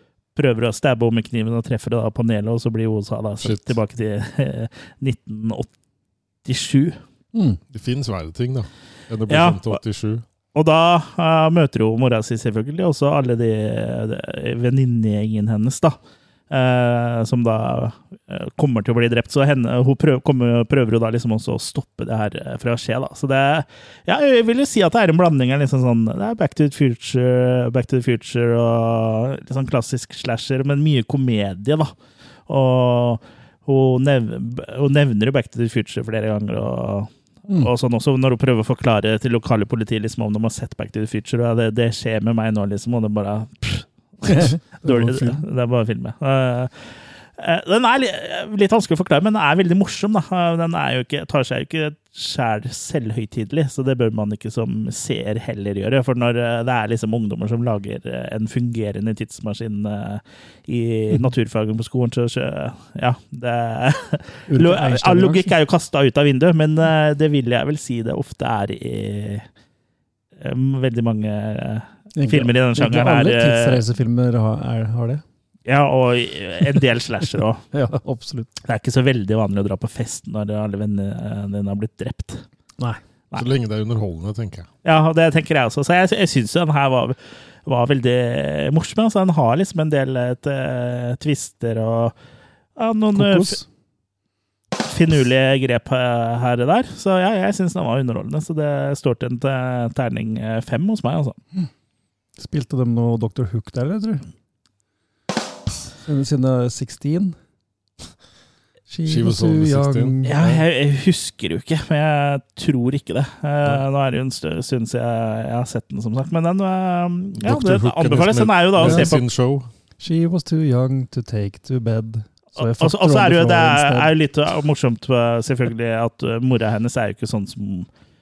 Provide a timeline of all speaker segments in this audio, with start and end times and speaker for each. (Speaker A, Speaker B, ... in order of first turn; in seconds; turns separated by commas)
Speaker A: 0.3-5.7, Speaker B: 3.4-3.7, Speaker A: 6.5-7.0, Speaker C: 7.3-7.6, Speaker B: 7.7-10.2, Speaker A: 9.3-9.8, Speaker A: 10.5-16.0, Speaker A: 16.5-31.9, Speaker A: 32.5-69.5, Speaker C: 44.2-45.4, Speaker C: 64.5-65.5, Speaker A: 70.4-73.8, Speaker C: 72.2-75.2, Speaker A: 75.7-77.7, Speaker C: 77.7-78.5, Speaker A: 78.6-82.4, Speaker B: 83.3-84.7, Speaker A: 84.8-92.1, Speaker A: 92.8-93.6, Speaker C: 93.1-93.7, Speaker A: 94.8-101.4, Speaker C: 102.4-104.2, Speaker C: 106.0-107.4, Speaker C: 108.9-110.6, Speaker B: 109.1-110.2, Speaker A: 110.2-119.2, Speaker B: 117.4-119.7, Speaker C: 118.8-119.1, Speaker C: 120.0-124.1, Speaker A: 122.6-127.9